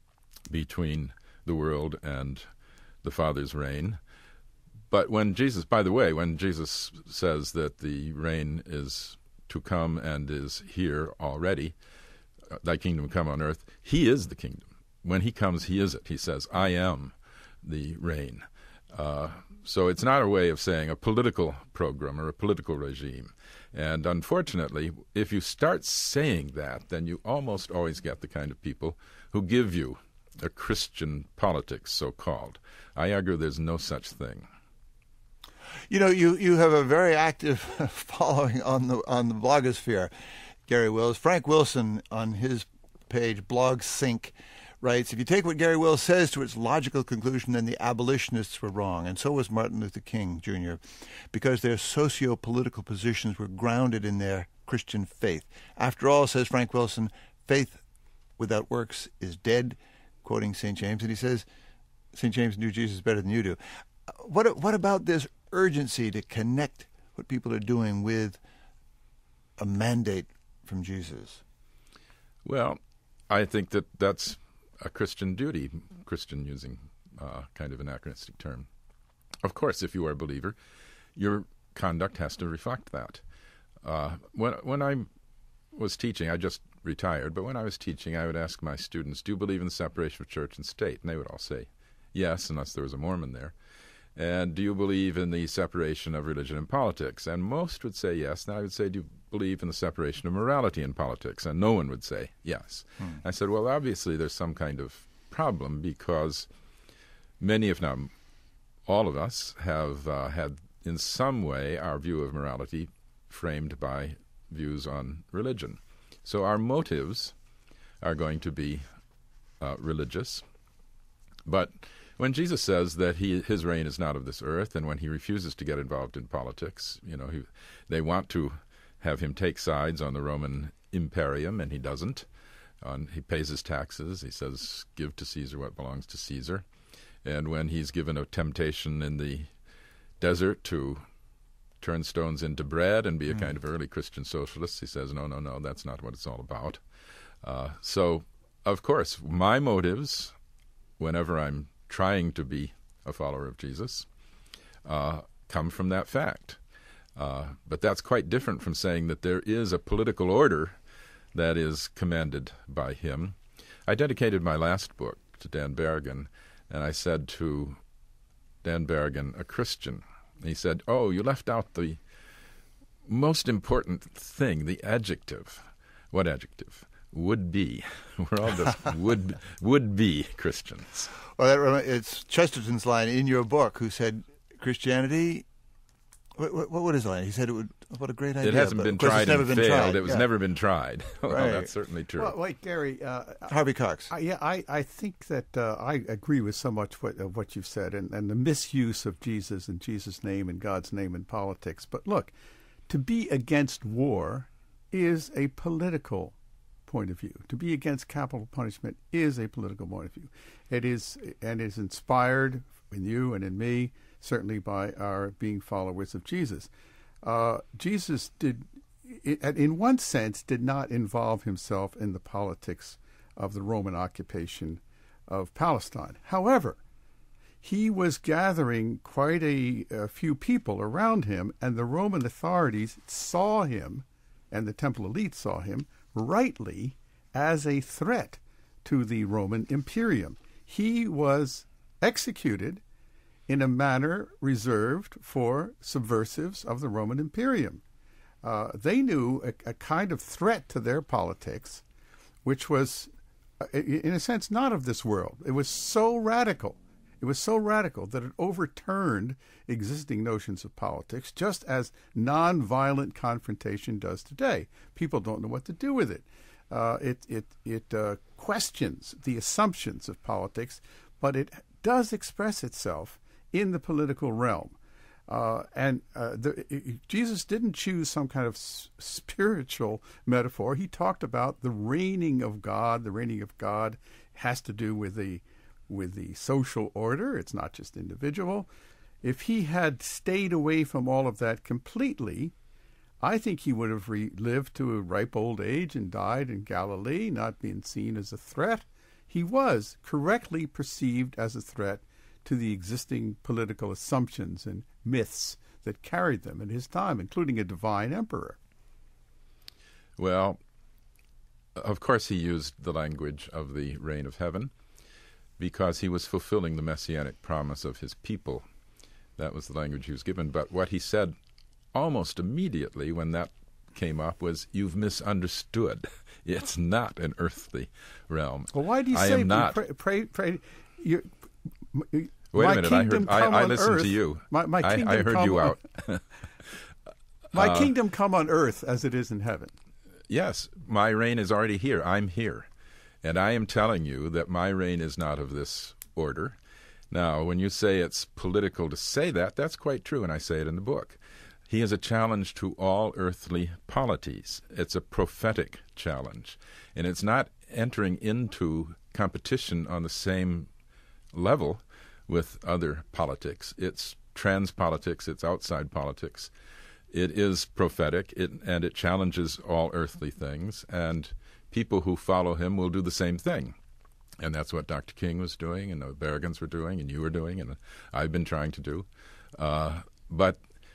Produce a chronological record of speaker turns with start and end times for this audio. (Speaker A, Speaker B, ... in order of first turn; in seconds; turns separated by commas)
Speaker A: 0.5-2.5, Speaker A: 3.0-4.0, Speaker A: 4.9-11.7, Speaker A: 12.5-34.5, Speaker B: 35.9-40.1, Speaker B: 40.7-57.8, Speaker B: 58.4-61.4, Speaker B: 62.1-63.6, Speaker B: 64.1-68.4, Speaker B: 69.6-71.4, Speaker A: 72.4-78.7, Speaker A: 79.4-80.5, Speaker A: 81.2-83.2, Speaker A: 83.8-85.1, Speaker A: 85.7-93.5, Speaker A: 94.2-106.5, Speaker A: 107.4-108.1, Speaker A: 108.8-117.3, Speaker A: 118.0-118.8, Speaker A: 119.6-120.4, Speaker A: 121.5-132.2, Speaker A: 132.8-136.6, Speaker A: 137.2-139.5, Speaker A: 140.2-141.0, Speaker A: 141.8-146.8, Speaker A: 147.4-150.3, Speaker A: 151.0-154.1, Speaker A: 154.8-156.6, Speaker A: 157.2-160.8, Speaker A: 161.3-163.3, Speaker A: 163.9-167.8, Speaker A: 168.6-172.0, Speaker A: 173.1-181.1, Speaker B: 181.4-185.4, Speaker B: 186.4-190.2, Speaker A: 188.4-192.3, Speaker B: 191.2-191.7, Speaker C: 192.2-193.5, Speaker B: 193.5-194.1, Speaker C: 194.1-202.3, Speaker C: 202.9-206.3, Speaker C: 206.9-216.7, Speaker C: 217.2-226.8, Speaker C: 227.6-242.8, Speaker C: 243.5-247.8, Speaker C: 248.4-251.8, Speaker C: 252.4-274.8, Speaker C: 275.3-288.7, Speaker C: 289.2-292.5, Speaker C: 293.2-308.6, Speaker A: 310.2-310.6, Speaker A: 311.8-314.7, Speaker A: 315.6-318.6, Speaker A: 319.4-321.3, Speaker A: 321.9-329.8, Speaker C: 328.7-331.3, Speaker C: 331.9-335.8, Speaker A: 332.5-336.2, Speaker C: 337.5-339.7, Speaker A: 337.6-337.9, Speaker A: 340.3-342.7, Speaker A: 343.2-346.6, Speaker A: 347.1-351.2, Speaker A: 351.7-360.7, Speaker A: 361.3-366.5, Speaker A: 367.1-373.7, Speaker A: 374.4-380.6